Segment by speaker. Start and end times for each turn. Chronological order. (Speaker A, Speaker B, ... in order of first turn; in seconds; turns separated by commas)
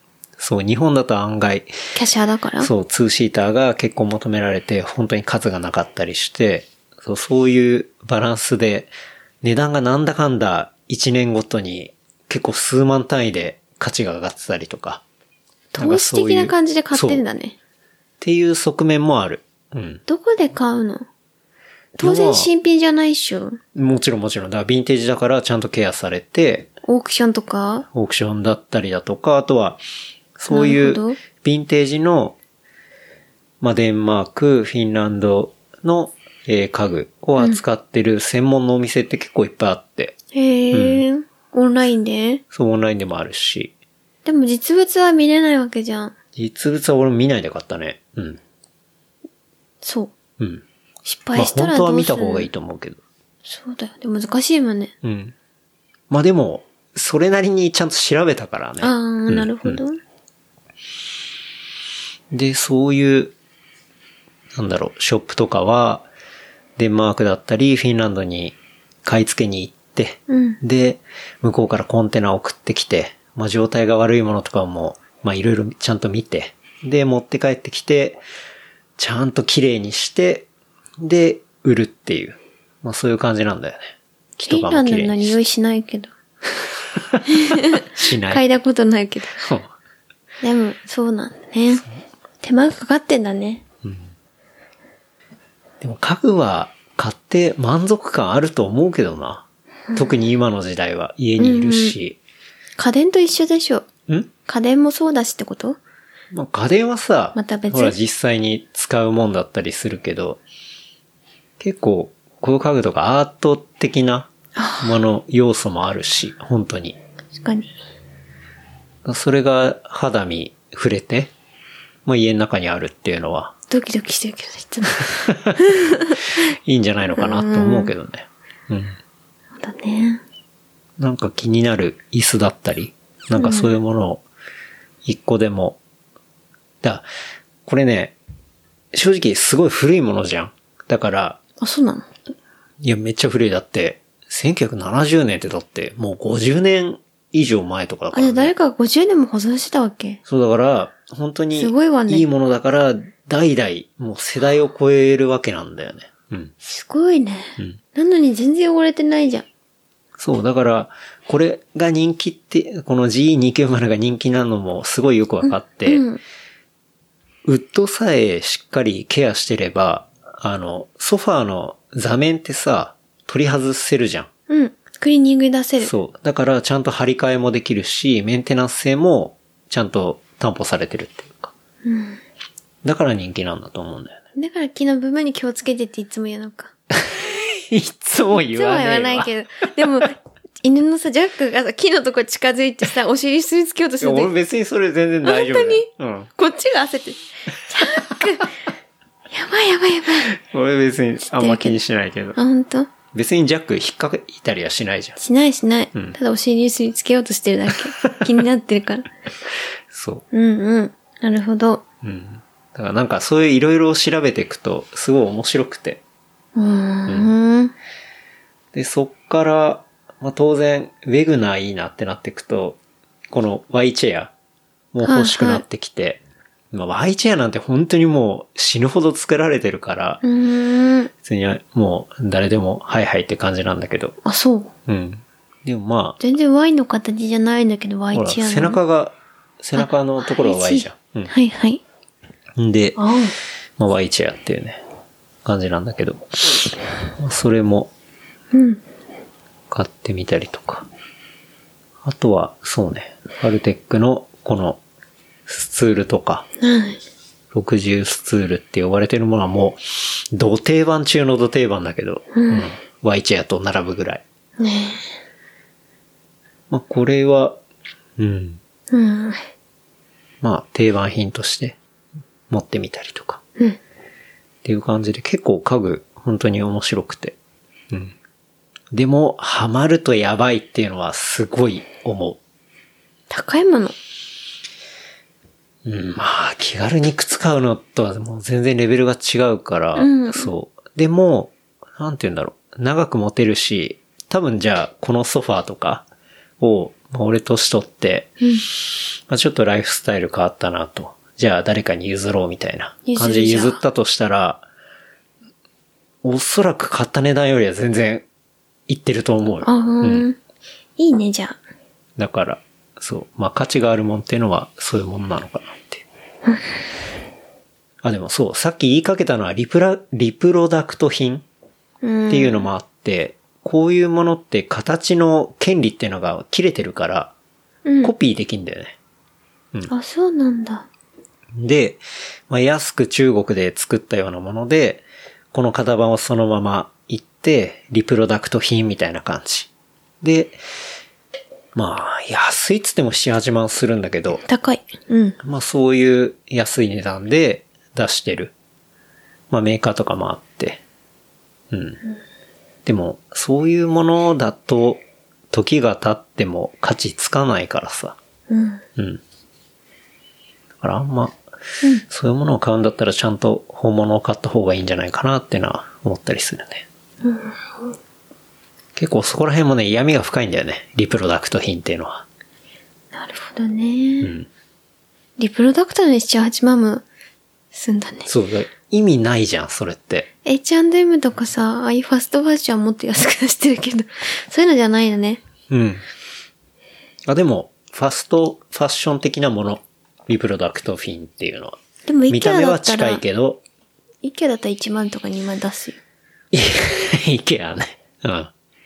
Speaker A: 0.4-1.7, Speaker B: 1.9-2.7, Speaker A: 2.6-8.9, Speaker A: 9.4-15.0, Speaker B: 15.7-17.6, Speaker A: 15.8-17.2, Speaker A: 18.2-20.0, Speaker B: 20.1-21.1, Speaker B: 22.0-23.6, Speaker A: 22.0-22.5, Speaker A: 23.7-26.7, Speaker B: 26.9-27.9, Speaker A: 27.9-29.8, Speaker A: 30.4-32.4, Speaker B: 30.5-31.2, Speaker A: 33.6-40.1, Speaker B: 40.3-42.4, Speaker A: 40.7-41.0, Speaker A: 42.5-43.7, Speaker B: 44.2-46.1, Speaker A: 46.3-48.4, Speaker B: 49.8-50.1, Speaker A: 50.4-50.6, Speaker B: 51.0-52.5, Speaker A: 51.3-53.0, Speaker B: 53.4-54.9, Speaker A: 55.0-55.3, Speaker A: 56.1-59.8, Speaker B: 58.8-60.0, Speaker A: 62.3-63.3, Speaker A: 64.5-66.1, Speaker A: 66.8-78.2, Speaker B: 70.3-70.6, Speaker A: 79.0-80.5, Speaker A: 81.0-85.4, Speaker B: 84.4-86.1, Speaker A: 87.0-88.4, Speaker B: 87.3-89.4, Speaker A: 89.4-89.7, Speaker B: 90.4-91.8, Speaker B: 92.4-93.6, Speaker A: 93.8-94.1, Speaker A: 95.8-102.2, Speaker B: 99.9-100.2, Speaker B: 101.4-102.0, Speaker B: 102.8-103.9, Speaker B: 104.5-105.8, Speaker A: 106.3-110.4, Speaker B: 107.3-108.0, Speaker A: 111.6-114.3, Speaker B: 114.5-115.0, Speaker A: 114.8-117.0, Speaker B: 117.3-117.7, Speaker A: 119.0-121.3, Speaker A: 122.0-123.5, Speaker B: 123.7-126.4, Speaker A: 125.1-125.6, Speaker A: 126.5-129.0, Speaker B: 127.1-127.9, Speaker B: 129.6-130.2, Speaker A: 131.0-134.2, Speaker B: 133.3-133.8, Speaker A: 135.0-135.8, Speaker A: 137.7-138.2, Speaker A: 138.9-141.4, Speaker B: 141.6-142.1, Speaker A: 142.8-148.5, Speaker B: 148.1-150.2, Speaker A: 150.3-156.5, Speaker B: 151.5-152.3, Speaker B: 156.6-159.4, Speaker A: 160.2-166.0, Speaker B: 165.4-166.2, Speaker A: 167.4-174.3, Speaker B: 174.5-175.9, Speaker A: 175.8-181.5, Speaker B: 181.8-182.2, Speaker A: 182.8-184.2, Speaker B: 184.3-186.7, Speaker A: 187.1-189.3, Speaker B: 188.5-194.3, Speaker A: 194.0-196.3, Speaker B: 195.2-198.5, Speaker B: 199.3-200.4, Speaker A: 200.3-202.4, Speaker B: 201.3-201.8, Speaker B: 202.3-202.9, Speaker A: 203.1-205.2, Speaker B: 205.2-209.1, Speaker A: 209.9-210.2, Speaker B: 210.3-211.8, Speaker A: 212.0-216.0, Speaker B: 216.5-217.7, Speaker A: 217.1-217.3, Speaker A: 218.7-222.8, Speaker A: 223.3-224.3, Speaker A: 224.9-226.2, Speaker B: 225.0-225.6, Speaker A: 226.7-230.2, Speaker B: 230.2-231.1, Speaker A: 231.2-234.2, Speaker B: 234.2-234.7, Speaker A: 234.8-236.2, Speaker B: 236.2-238.8, Speaker A: 238.1-241.3, Speaker B: 239.8-241.8, Speaker A: 242.6-243.0, Speaker B: 243.0-243.3, Speaker A: 243.8-244.8, Speaker A: 245.4-247.9, Speaker B: 248.5-248.8, Speaker A: 249.7-250.9, Speaker A: 252.0-254.8, Speaker A: 255.5-256.4, Speaker B: 256.6-257.0, Speaker A: 257.5-264.2, Speaker B: 262.3-262.7, Speaker B: 264.6-265.1, Speaker A: 266.7-267.6, Speaker A: 268.2-268.6, Speaker B: 268.9-269.4, Speaker A: 270.4-271.8, Speaker A: 272.5-273.4, Speaker A: 274.6-277.4, Speaker A: 278.9-282.4, Speaker B: 283.3-283.9, Speaker A: 285.8-296.1, Speaker B: 289.9-290.5, Speaker A: 296.6-298.3, Speaker A: 299.3-304.6, Speaker B: 303.1-303.8, Speaker A: 306.2-308.2, Speaker A: 308.9-310.3, Speaker B: 309.6-310.4, Speaker B: 311.0-311.6, Speaker A: 312.2-316.0, Speaker A: 318.0-321.4, Speaker B: 322.0-322.7, Speaker A: 322.3-327.3, Speaker B: 327.8-328.1, Speaker A: 328.0-328.9, Speaker B: 329.9-330.9, Speaker A: 331.6-339.7, Speaker A: 340.2-340.6, Speaker A: 341.7-344.4, Speaker B: 344.4-345.4, Speaker A: 345.4-348.5, Speaker A: 349.5-350.8, Speaker A: 351.7-352.0, Speaker A: 352.9-358.1, Speaker B: 358.5-358.8, Speaker A: 359.0-359.2, Speaker A: 360.8-361.4, Speaker A: 362.0-366.9, Speaker B: 367.2-367.9, Speaker A: 368.9-372.2, Speaker B: 373.1-374.3, Speaker A: 374.2-374.5, Speaker B: 375.4-377.0, Speaker B: 377.7-378.3, Speaker A: 378.2-380.3, Speaker B: 380.4-385.4, Speaker A: 385.7-386.0, Speaker A: 387.3-391.8, Speaker B: 392.1-393.2, Speaker A: 392.3-393.6, Speaker B: 394.2-396.0, Speaker A: 396.5-398.5